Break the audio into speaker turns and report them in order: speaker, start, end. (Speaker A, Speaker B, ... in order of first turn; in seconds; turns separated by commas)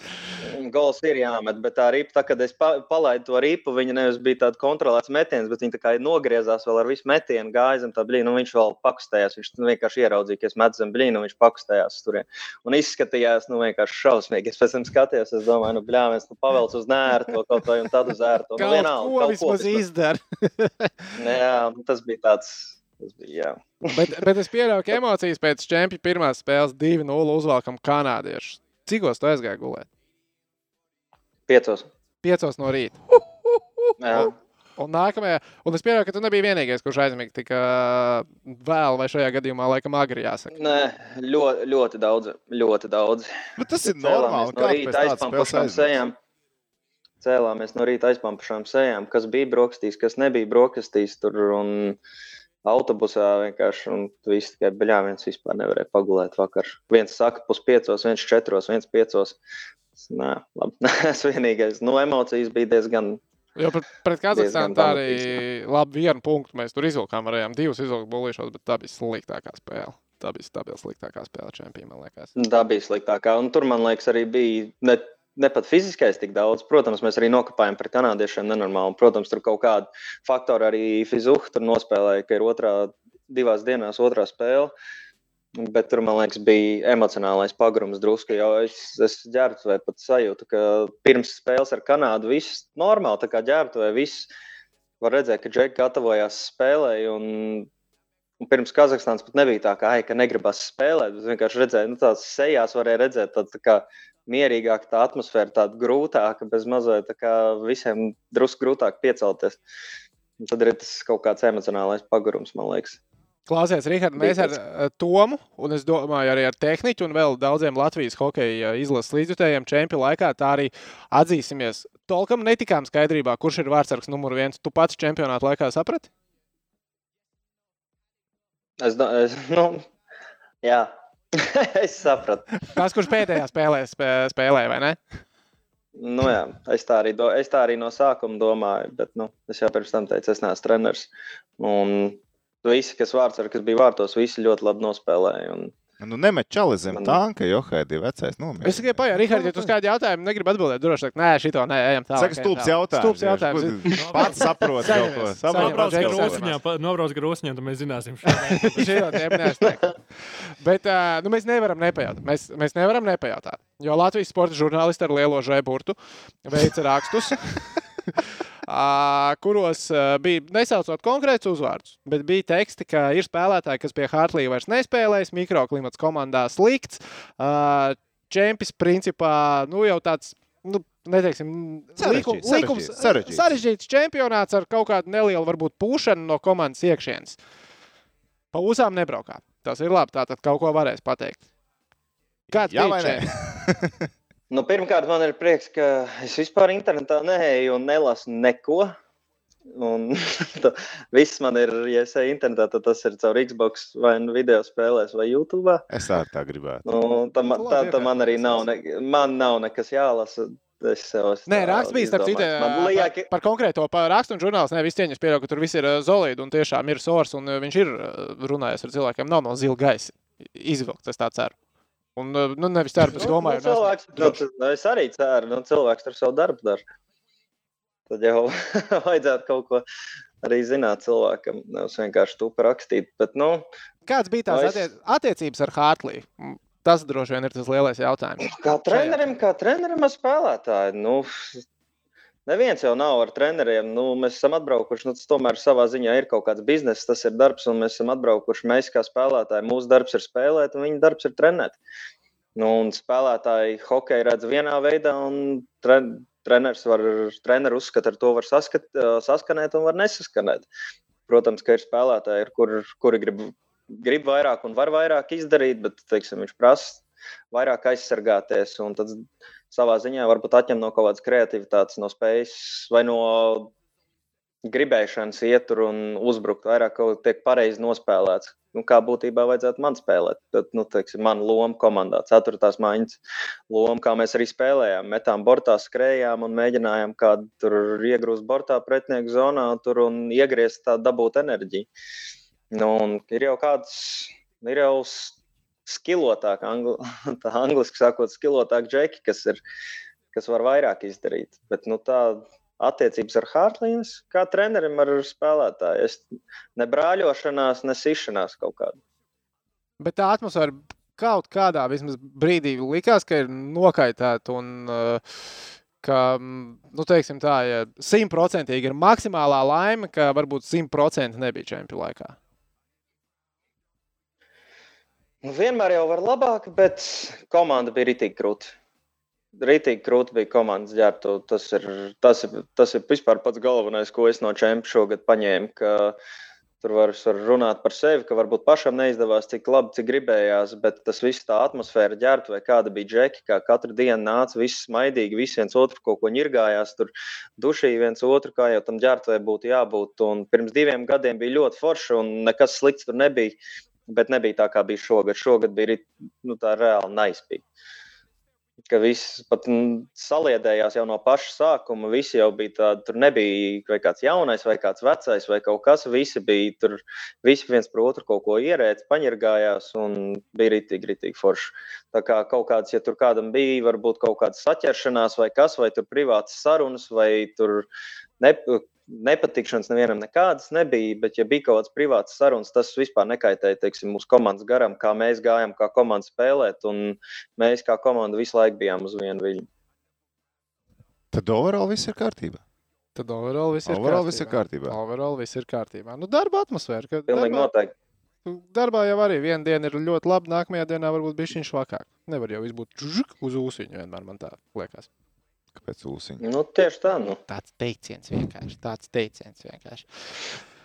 Speaker A: 0.4-19.8, Speaker B: 18.6-21.1, Speaker A: 21.2-24.1, Speaker B: 23.9-29.9, Speaker A: 31.5-31.9, Speaker B: 32.2-33.0, Speaker A: 34.0-34.3, Speaker B: 34.1-40.5, Speaker A: 40.5-43.3, Speaker C: 43.6-46.0, Speaker A: 43.9-46.1, Speaker A: 47.2-52.0, Speaker A: 52.6-59.4, Speaker A: 60.0-63.2, Speaker B: 63.5-72.3, Speaker A: 64.3-65.4, Speaker A: 72.3-84.7, Speaker A: 85.6-94.3, Speaker A: 95.0-97.7, Speaker A: 98.4-109.6, Speaker A: 110.4-113.0, Speaker B: 113.5-126.1, Speaker A: 114.2-114.5, Speaker A: 128.8-129.8, Speaker A: 130.6-132.6, Speaker B: 132.7-135.0, Speaker A: 136.0-141.1, Speaker A: 141.6-145.7, Speaker C: 146.0-149.5, Speaker B: 148.6-156.6, Speaker C: 152.1-156.4, Speaker D: 154.0-154.4, Speaker D: 155.5-159.5, Speaker B: 158.6-187.4, Speaker C: 182.0-183.6, Speaker B: 188.5-191.4, Speaker C: 192.5-194.1, Speaker B: 192.5-193.2, Speaker A: 194.5-198.9, Speaker A: 199.7-205.8, Speaker C: 205.9-206.8, Speaker A: 206.8-213.3, Speaker B: 207.4-208.6, Speaker B: 211.5-221.5, Speaker B: 222.2-224.4, Speaker A: 223.1-226.8, Speaker A: 228.1-229.8, Speaker A: 230.4-233.7, Speaker B: 234.1-239.3, Speaker A: 234.5-234.8, Speaker A: 238.4-241.4, Speaker A: 242.4-251.8, Speaker A: 252.6-260.7, Speaker A: 261.3-273.7, Speaker A: 274.7-283.2, Speaker A: 283.7-291.9, Speaker A: 292.7-295.3, Speaker A: 295.9-299.6, Speaker A: 300.3-306.2, Speaker A: 306.8-309.0, Speaker B: 310.0-315.4, Speaker B: 316.0-322.4, Speaker A: 325.4-328.7, Speaker A: 329.6-336.1, Speaker A: 336.8-357.6, Speaker A: 358.9-377.9, Speaker A: 378.4-389.7, Speaker C: 391.3-392.6, Speaker B: 393.1-397.7, Speaker C: 393.9-395.0, Speaker A: 397.3-397.9, Speaker B: 398.4-405.1, Speaker C: 405.8-406.4, Speaker A: 406.4-407.4, Speaker B: 407.5-410.3